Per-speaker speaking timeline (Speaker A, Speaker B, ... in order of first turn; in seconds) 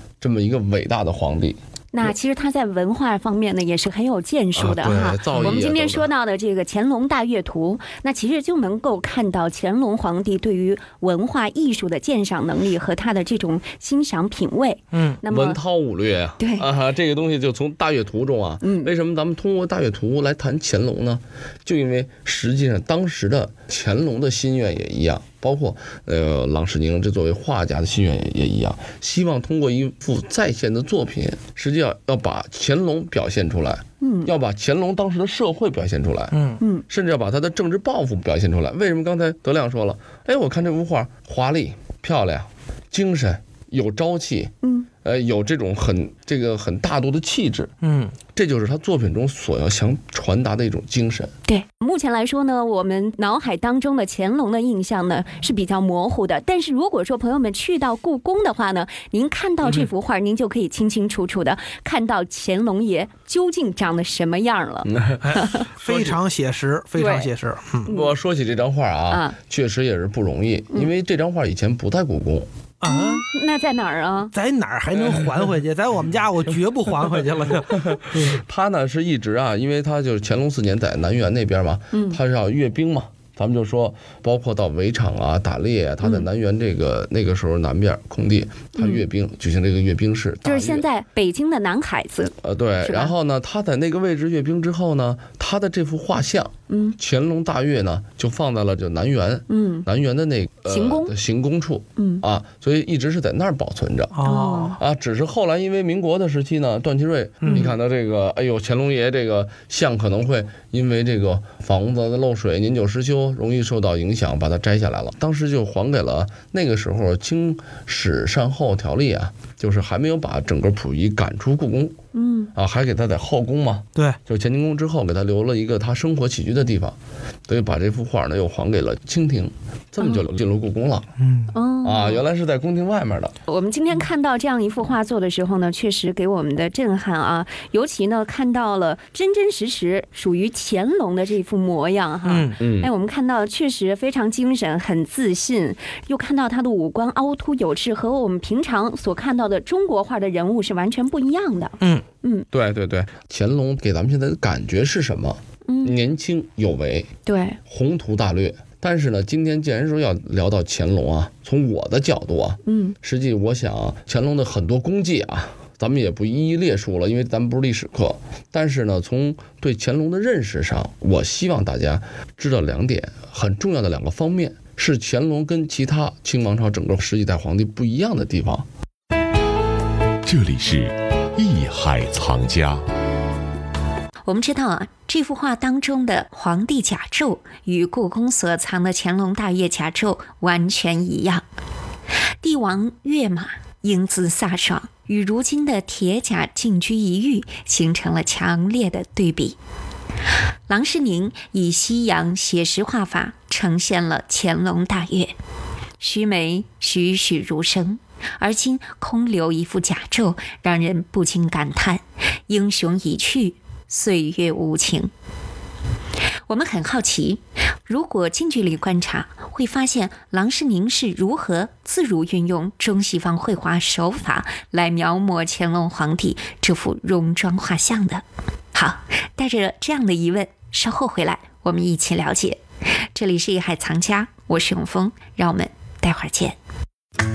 Speaker A: 0.2-2.1, 4.5-6.1, 15.3-36.4, 36.9-47.7, 48.3-51.3, 64.8-65.2, 65.8-66.1, 67.8-72.5, 77.9-90.8, 92.4-104.2, 104.7-122.0, 122.5-127.0, 127.5-131.1, 131.8-133.3, 142.6-142.9, 152.5-157.1, 157.7-178.7
Speaker B: 1.9-15.6, 16.4-16.6, 18.6-18.9, 34.0-34.3, 44.6-44.9, 51.5-65.7, 67.0-67.3, 67.8-68.1, 69.1-69.4, 72.8-74.3, 81.9-82.2, 88.8-89.0, 90.4-93.1, 96.7-97.0, 99.5-99.8, 100.7-101.1, 102.0-102.2, 104.2-104.8, 107.4-107.7, 122.1-122.5, 131.5-132.2, 133.5-152.5, 155.7-156.0, 157.2-157.6, 162.7-162.9
Speaker C: 5.3-5.6, 36.3-36.6, 47.8-48.1, 65.2-67.9, 72.8-73.2, 74.3-78.3, 104.1-104.7, 107.4-107.7, 131.2-131.5, 142.2-142.6
Speaker D: 180.2-182.8
Speaker E: 184.2-191.4, 192.4-199.6, 200.7-205.3, 206.0-215.1, 216.5-228.2, 228.7-232.6, 233.1-236.6